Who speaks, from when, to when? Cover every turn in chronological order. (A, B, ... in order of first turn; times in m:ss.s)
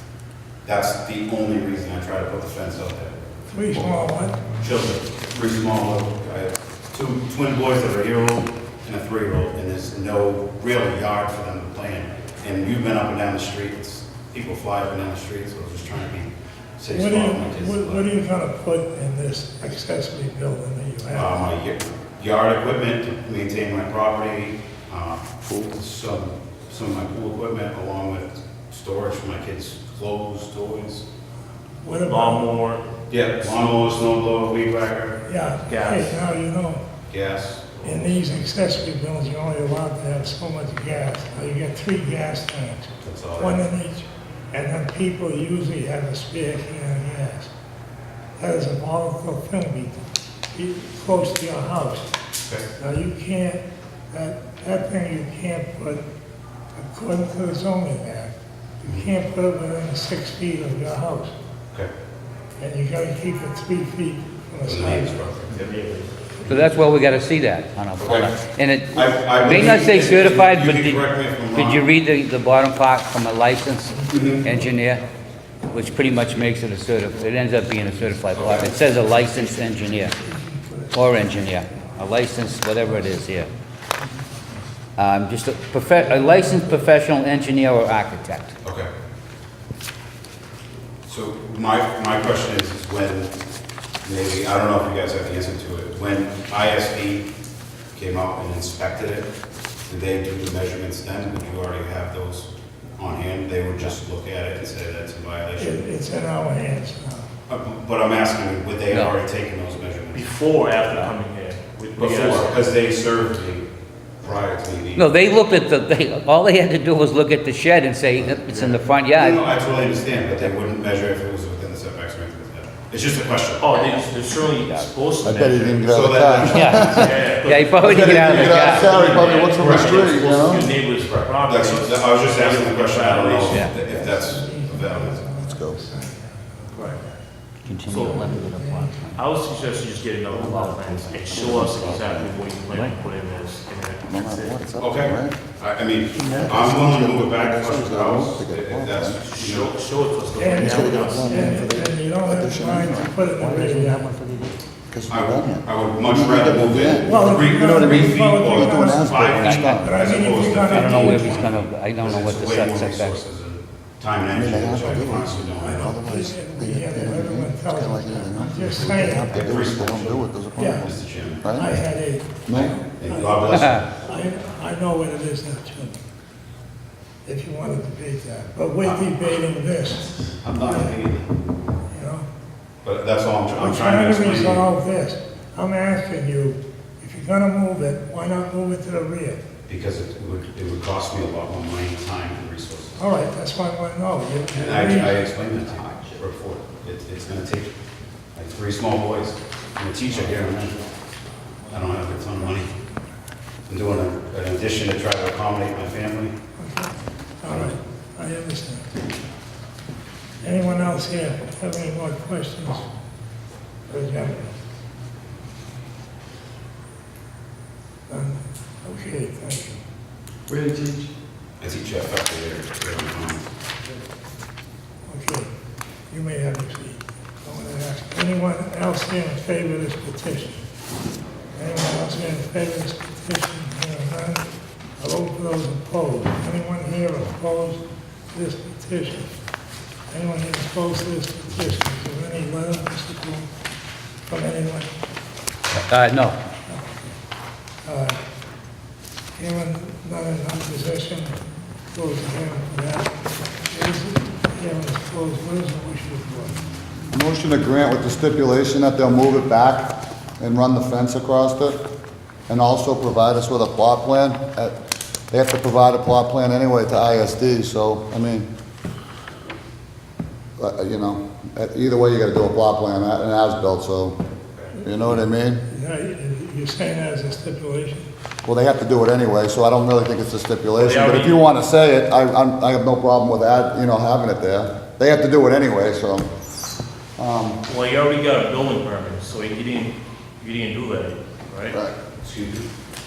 0:00.6-0:03.2 A
0:03.5-0:04.4 B
0:04.5-0:18.1 A
0:16.9-0:21.4 B
0:21.1-0:31.0 A
0:31.8-0:32.5 B
0:32.1-0:32.8 C
0:33.1-0:35.2 A
0:35.3-0:36.8 B
0:35.7-0:36.2 C
0:37.1-0:38.1 A
0:37.8-0:47.5 B
0:43.0-0:43.6 A
0:48.4-0:50.0 B
0:50.5-0:52.1 B
0:52.8-0:56.0 B
0:56.8-0:58.3 B
0:58.8-0:59.1 A
0:58.8-1:01.3 B
1:02.6-1:05.3 B
1:04.6-1:05.6 A
1:05.5-1:07.0 C
1:06.5-1:15.0 D
1:08.0-1:08.3 A
1:08.9-1:11.9 A
1:14.0-1:14.6 B
1:14.1-1:14.5 A
1:15.7-1:20.2 D
1:18.3-1:18.8 A
1:20.2-1:21.1 B
1:20.9-1:23.5 D
1:25.0-1:28.6 D
1:28.6-1:28.9 A
1:31.1-1:33.3 A
1:34.0-1:37.3 A
1:37.9-1:39.3 A
1:39.9-1:45.8 A
1:45.6-1:47.3 B
1:47.5-1:50.3 A
1:50.1-1:52.6 C
1:52.0-1:53.7 A
1:54.2-1:55.1 A
1:55.0-1:59.4 D
1:58.5-1:58.9 C
1:59.2-2:04.0 A
2:03.6-2:13.8 C
2:05.2-2:07.2 E
2:05.9-2:07.3 A
2:06.5-2:09.0 D
2:07.8-2:10.6 E
2:08.0-2:15.2 A
2:13.7-2:14.2 E
2:13.9-2:17.2 B
2:15.4-2:15.8 E
2:17.6-2:19.2 D
2:17.9-2:18.5 C
2:17.9-2:19.1 B
2:19.1-2:24.6 C
2:20.3-2:22.4 E
2:24.1-2:25.4 E
2:24.8-2:29.7 A
2:26.1-2:29.2 E
2:29.2-2:31.8 C
2:30.4-2:34.1 B
2:30.5-2:34.0 E
2:34.9-2:40.0 E
2:35.1-2:46.0 A
2:37.0-2:41.5 B
2:39.4-2:39.7 D
2:40.8-2:43.2 D
2:44.3-2:51.7 E
2:45.6-2:49.3 B
2:48.8-2:51.6 A
2:50.6-2:50.9 B
2:51.5-2:56.0 B
2:52.5-2:52.8 E
2:52.5-2:53.9 A
2:53.5-2:53.9 D
2:57.2-3:00.1 B
2:58.8-2:59.1 A
3:00.4-3:01.3 A
3:00.6-3:01.0 B
3:01.9-3:02.3 B
3:02.8-3:04.7 A
3:03.6-3:09.4 B
3:09.7-3:13.0 A
3:13.0-3:15.2 B
3:14.5-3:17.7 A
3:18.4-3:20.8 A
3:21.7-3:22.7 A
3:23.7-3:26.3 A
3:26.6-3:29.1 B
3:27.5-3:27.8 A
3:30.4-3:32.9 B
3:33.9-3:34.5 B
3:38.1-3:39.8 B
3:41.6-3:43.5 A
3:45.1-3:45.5 B
3:46.1-3:50.6 B
3:51.6-3:54.4 B
3:55.0-3:59.3 B
4:00.1-4:03.5 B
4:04.3-4:04.9 B
4:05.9-4:06.4 D
4:06.7-4:07.1 B
4:07.8-4:08.2 B
4:09.4-4:16.6 B
4:17.1-4:21.8 E
4:22.5-4:24.8 E
4:25.3-4:28.5 E
4:30.6-4:34.2 E
4:34.8-4:35.6 E
4:35.7-4:38.1 B
4:38.4-4:46.3 E
4:40.8-4:41.4 C
4:47.2-4:47.6 E
4:47.6-4:51.8 C
4:52.2-4:52.7 A